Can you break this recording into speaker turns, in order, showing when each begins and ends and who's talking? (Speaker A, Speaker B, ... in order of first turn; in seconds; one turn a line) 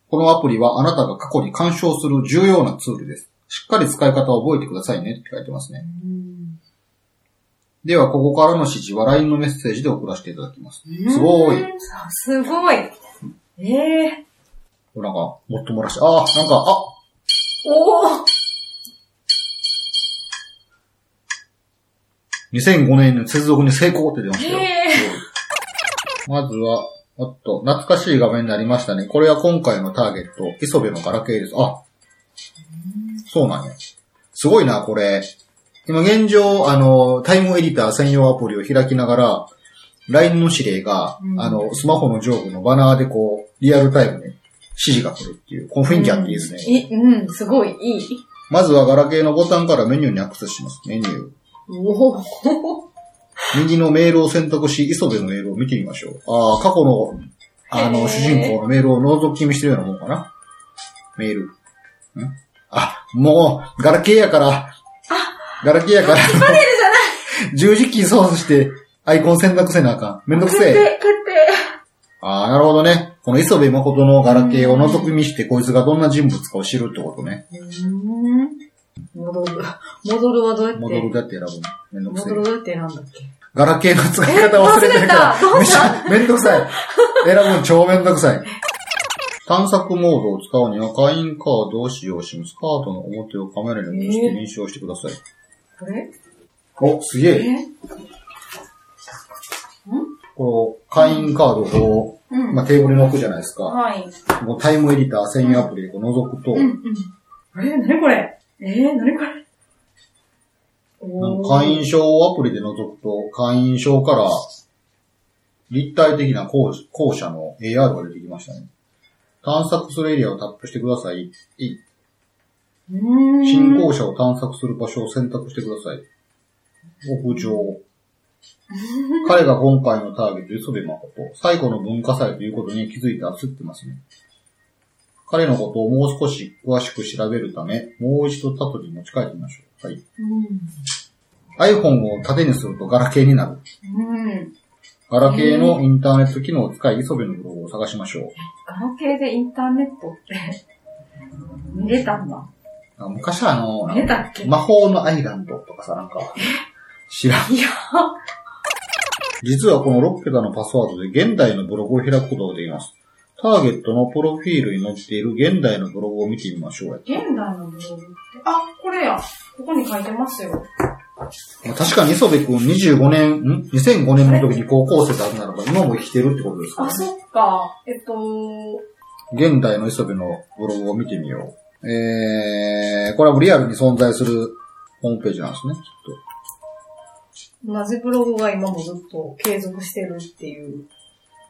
Speaker A: 0.1-5.8
Speaker B: 5.8-6.6
Speaker A: 7.8-11.7
Speaker B: 10.9-12.9
Speaker B: 13.6-14.2
Speaker A: 14.9-16.9
Speaker B: 17.6-18.3
Speaker A: 22.5-25.2
Speaker B: 24.4-25.1
Speaker A: 26.3-31.8
Speaker B: 32.8-33.2
Speaker A: 33.3-33.8
Speaker A: 34.3-35.3
Speaker A: 35.9-39.5
Speaker A: 40.1-46.9
Speaker B: 41.2-41.7
Speaker B: 45.9-48.2
Speaker A: 48.5-51.3
Speaker B: 51.7-52.8
Speaker A: 53.5-60.3
Speaker B: 57.7-58.6
Speaker A: 61.2-61.5
Speaker A: 62.1-64.7
Speaker B: 65.1-67.2
Speaker A: 65.6-66.6
Speaker A: 67.5-70.9
Speaker B: 70.3-71.6
Speaker A: 72.2-77.4
Speaker B: 74.2-75.1
Speaker B: 77.5-78.6
Speaker B: 79.1-81.1
Speaker A: 80.7-82.5
Speaker B: 82.1-83.3
Speaker A: 83.5-88.5
Speaker B: 84.2-87.2
Speaker A: 89.5-95.2
Speaker B: 93.9-94.4
Speaker B: 95.8-96.1
Speaker A: 96.8-97.5
Speaker B: 97.3-97.7
Speaker B: 99.9-100.1
Speaker A: 100.4-103.8
Speaker B: 101.0-101.3
Speaker B: 102.3-102.6
Speaker B: 103.7-104.1
Speaker A: 104.4-106.7
Speaker B: 106.5-109.4
Speaker B: 111.0-111.8
Speaker A: 111.2-114.5
Speaker A: 115.7-118.7
Speaker A: 119.4-121.8
Speaker B: 122.9-123.9
Speaker A: 123.4-126.0
Speaker A: 127.0-127.8
Speaker B: 128.7-129.4
Speaker A: 129.2-134.0
Speaker A: 135.3-140.0
Speaker B: 140.2-140.8
Speaker A: 141.6-143.6
Speaker B: 143.8-144.5
Speaker A: 145.1-148.3
Speaker B: 145.2-145.8
Speaker B: 148.4-150.6
Speaker B: 151.7-152.5
Speaker A: 153.0-156.4
Speaker B: 153.9-154.5
Speaker A: 157.1-157.5
Speaker B: 157.5-158.1
Speaker A: 159.4-167.2
Speaker B: 167.1-170.7
Speaker A: 171.6-177.1
Speaker B: 176.8-178.8
Speaker A: 179.3-186.2
Speaker B: 187.6-190.9